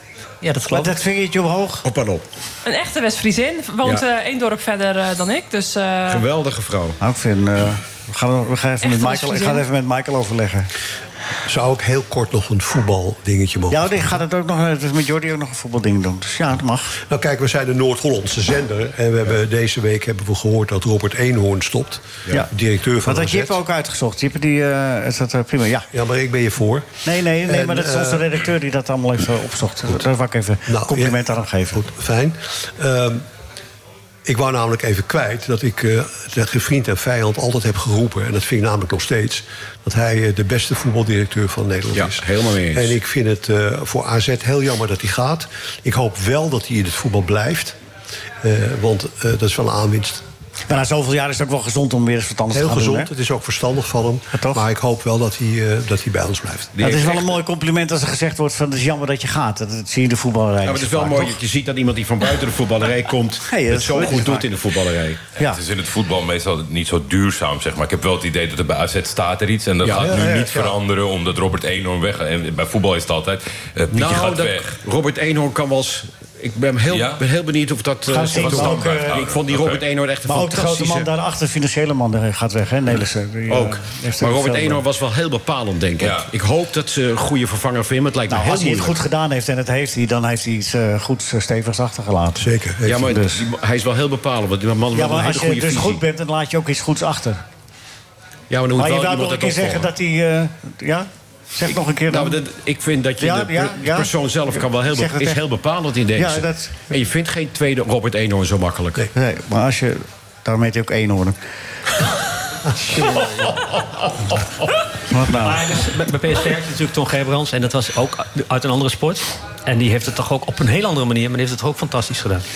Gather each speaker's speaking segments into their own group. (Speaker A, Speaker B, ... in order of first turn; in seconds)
Speaker A: 0.4-1.0, 115.3-122.5
Speaker B: 0.7-1.8, 7.0-10.7, 13.7-17.0, 23.0-25.9, 27.0-31.8, 50.7-53.1, 54.3-54.6, 56.8-61.4, 63.5-64.5, 78.1-79.2, 80.3-84.8, 88.3-93.4, 94.9-97.4, 98.8-102.4, 103.2-105.4, 106.1-106.8, 109.1-111.4, 115.1-115.7
Speaker C: 1.8-2.2, 6.1-7.0, 41.9-43.0, 56.7-57.4, 60.6-65.2, 69.8-70.2, 73.9-81.1, 83.5-89.0, 92.8-96.0, 98.5-99.9, 102.1-109.1
Speaker D: 2.6-6.3, 8.8-9.7
Speaker E: 11.5-14.2, 17.1-23.6, 25.9-26.9, 27.5-28.3, 30.7-31.2, 31.7-33.2, 34.3-47.8, 48.4-50.2, 52.5-56.7, 70.1-70.7, 92.4-93.1, 112.8-113.6
Speaker F: 65.4-74.7, 76.9-77.2, 78.3-79.8, 86.0-86.3